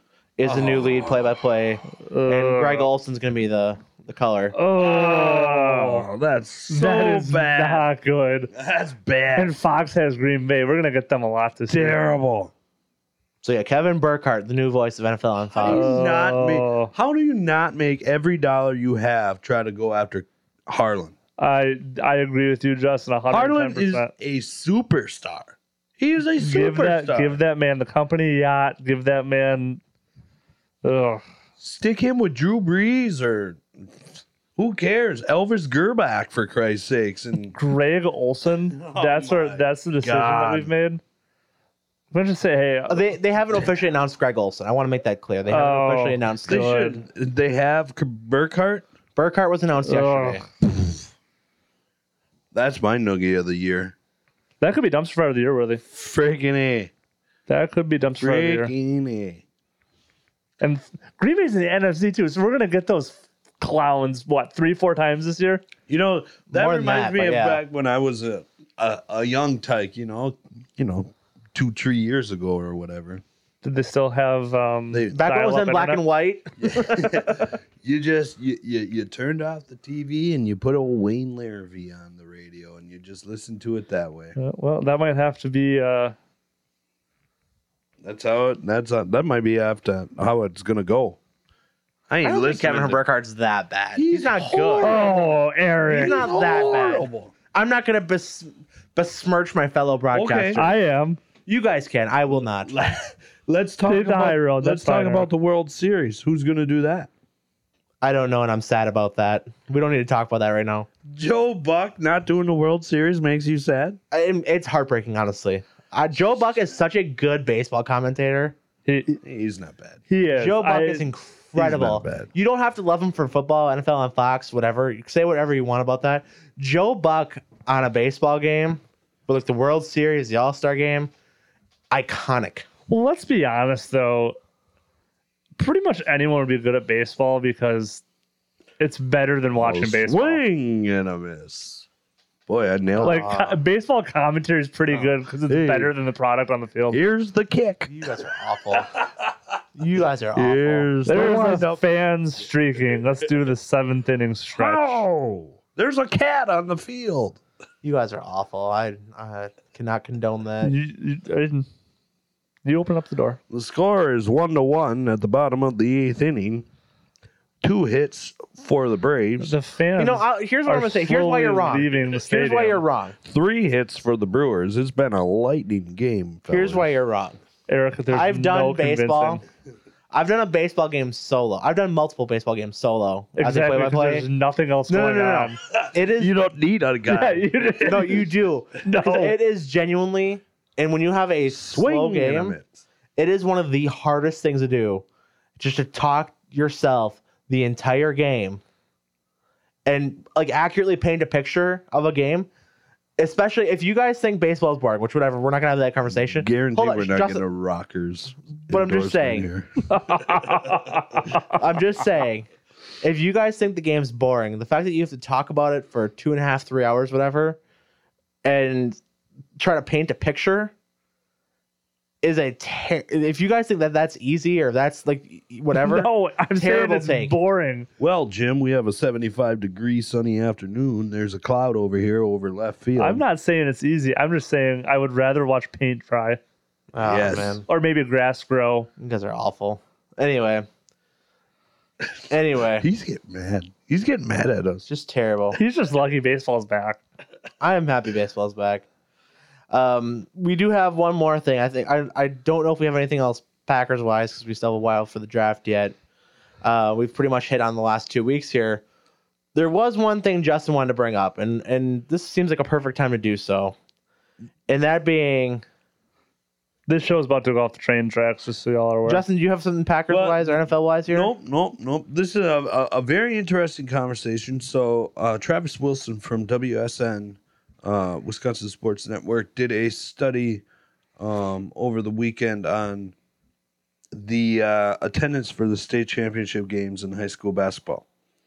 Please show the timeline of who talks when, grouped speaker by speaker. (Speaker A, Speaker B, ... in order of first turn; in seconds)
Speaker A: 0.4-4.5, 13.4-16.0, 42.9-46.8, 49.1-50.5, 66.5-67.6, 75.1-77.5, 92.2-95.0, 95.9-100.7, 101.5-102.7, 108.0-110.9, 114.1-118.5, 120.3-131.1, 131.9-132.7, 143.0-143.6, 147.9-148.9, 149.7-151.5, 157.8-160.7, 170.0-173.2, 176.5-177.4, 178.1-179.4, 180.1-184.2, 184.9-186.3, 187.8-192.6, 193.2-195.0, 195.6-198.6, 199.8-202.5, 203.2-207.4, 208.7-209.5, 211.5-212.5, 213.0-217.6, 218.4-219.0, 219.6-220.7, 222.2-227.3, 236.9-237.6, 239.0-240.7, 242.3-242.8, 244.8-245.6, 247.6-248.8, 249.7-255.9, 256.6-258.8, 259.5-263.8, 264.7-265.6, 269.1-271.3
Speaker B: 0.4-1.1, 4.8-7.8, 8.5-9.5, 11.7-12.5, 15.6-21.1, 23.3-27.4, 31.6-33.6, 34.5-37.5, 38.7-40.7, 46.5-48.9, 52.5-53.9, 55.9-56.9, 58.2-59.4, 65.9-73.2, 74.9-75.2, 76.6-84.3, 88.0-91.2, 92.1-93.0, 93.9-95.2, 95.9-97.3, 100.1-100.6, 102.6-107.1, 111.1-114.0, 119.2-120.0, 121.5-122.3, 139.6-141.8, 142.5-143.3, 145.5-145.9, 146.9-147.9, 150.3-151.8, 154.6-157.4, 163.5-166.7, 167.6-169.5, 173.2-176.9, 185.8-188.1, 191.5-192.8, 206.3-210.1, 228.0-233.2, 237.0-237.6, 242.8-244.8, 270.1-280.6, 281.2-283.1, 284.1-288.0
Speaker C: 1.9-2.9, 4.5-6.0, 6.7-8.5, 9.3-12.0, 15.6-16.9, 21.4-24.1, 26.4-29.8, 30.8-31.2, 37.5-41.0, 42.1-43.1, 45.5-47.0, 49.8-50.4, 54.6-55.8, 57.5-58.7, 60.6-65.6, 73.6-76.0, 84.4-86.1, 94.8-96.2, 100.5-101.2, 103.8-105.3, 118.8-119.2, 120.1-121.0, 132.9-134.3, 135.6-138.0, 138.8-140.4, 143.0-147.0, 151.1-155.0, 160.6-161.7, 162.6-163.4, 169.4-172.8, 177.7-179.4, 183.4-185.6, 187.1-188.3, 188.8-189.3, 209.9-211.6, 225.7-227.9, 233.0-236.4, 237.6-238.9, 245.5-247.0, 266.9-269.2